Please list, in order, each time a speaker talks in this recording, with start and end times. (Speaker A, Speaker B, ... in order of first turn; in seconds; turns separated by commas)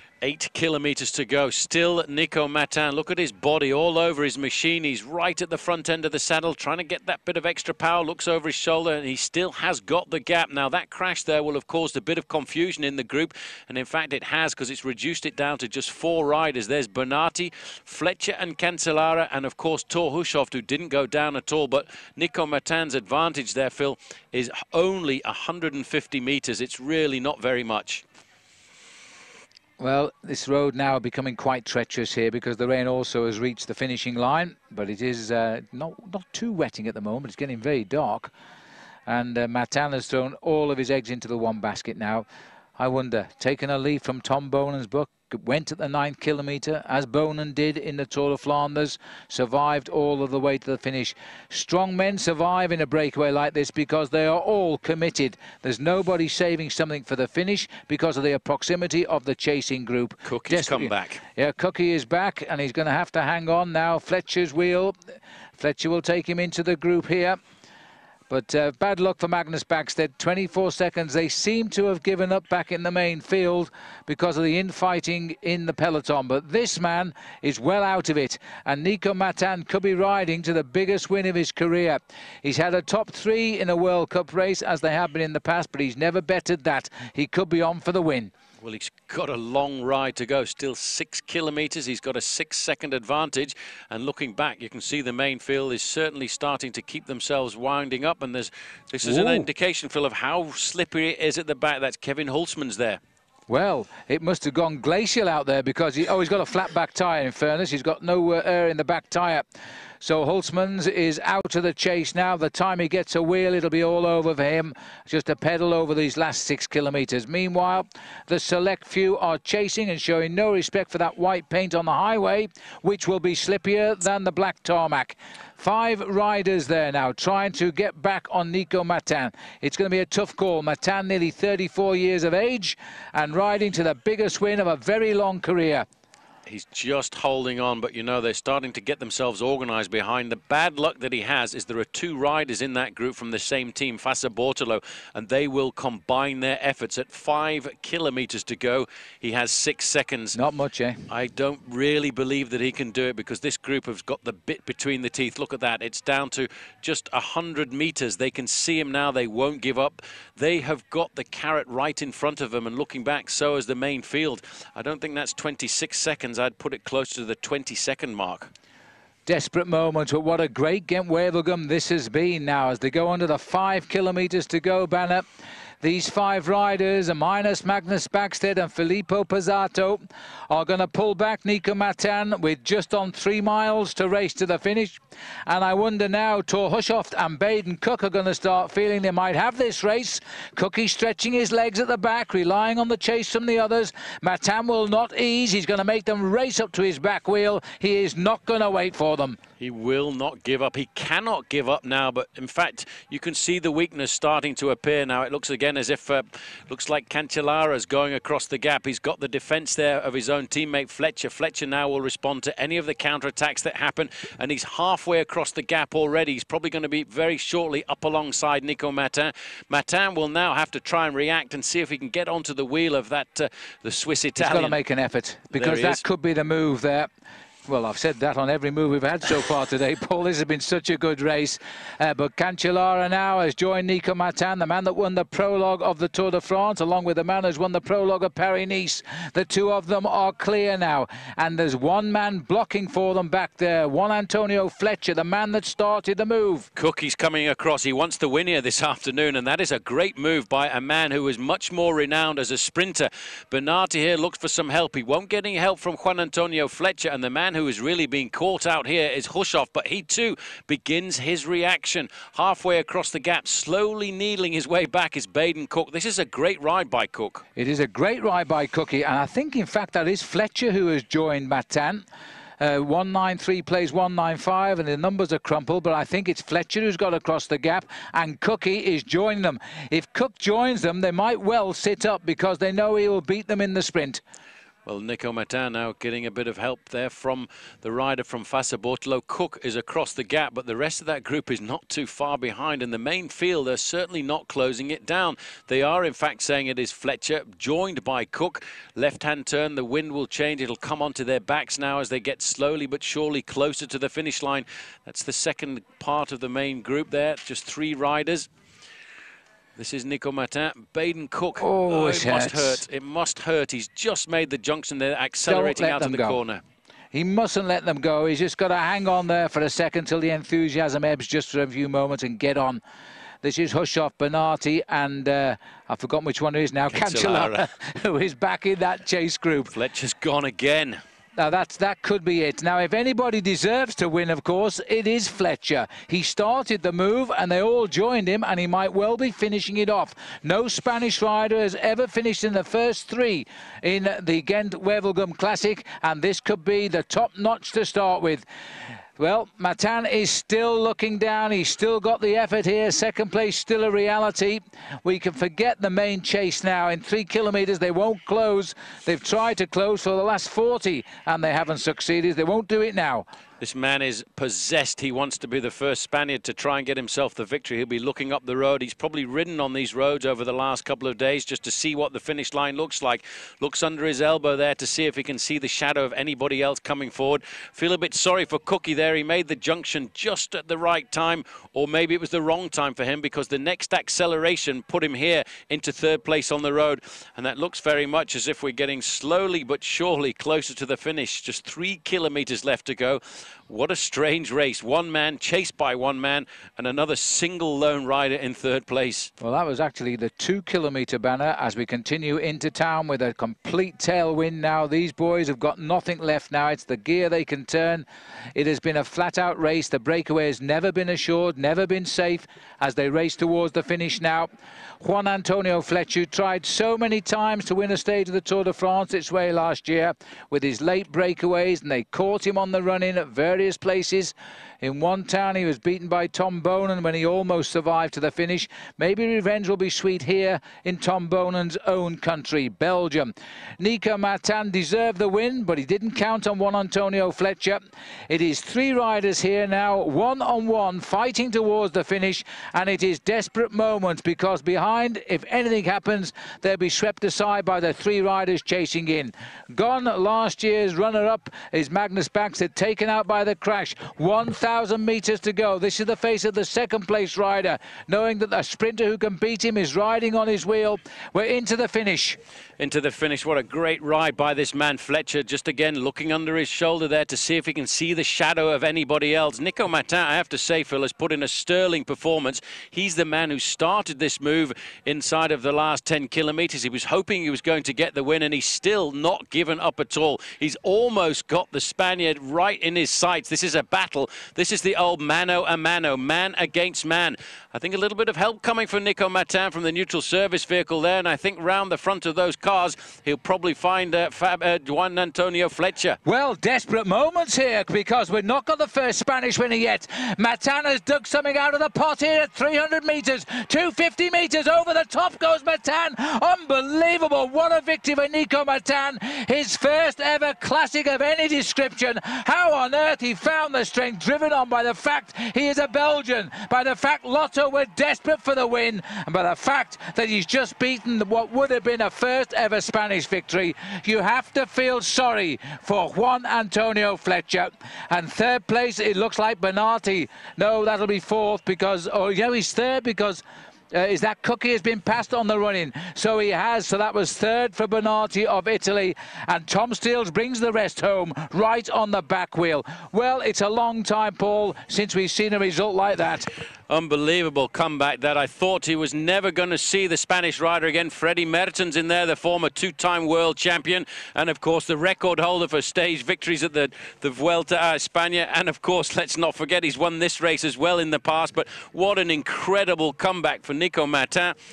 Speaker A: 0.2-28.0, Speaker B: 29.8-38.3, Speaker B: 39.1-65.0, Speaker A: 60.2-61.2, Speaker B: 65.6-67.4, Speaker B: 68.3-88.3, Speaker A: 88.6-103.0, Speaker B: 99.0-99.5, Speaker B: 103.5-109.5, Speaker B: 110.0-135.9, Speaker A: 136.5-150.4, Speaker B: 150.3-151.0, Speaker A: 151.1-168.5, Speaker B: 169.3-175.3, Speaker B: 175.8-199.4, Speaker A: 199.6-224.8, Speaker B: 224.4-227.1, Speaker A: 225.5-226.0, Speaker B: 227.7-246.7, Speaker A: 246.8-267.4, Speaker B: 267.6-272.1, Speaker B: 272.6-284.2, Speaker A: 284.9-308.5, Speaker A: 309.8-316.6, Speaker B: 311.6-312.8, Speaker B: 315.4-316.4, Speaker B: 317.1-322.8, Speaker B: 323.4-329.7, Speaker A: 326.9-327.7, Speaker A: 329.7-331.0, Speaker B: 331.4-348.5, Speaker B: 349.2-363.3, Speaker A: 363.6-399.3, Speaker B: 399.4-462.4, Speaker A: 462.8-496.2, Speaker B: 496.2-546.5, Speaker A: 546.9-564.6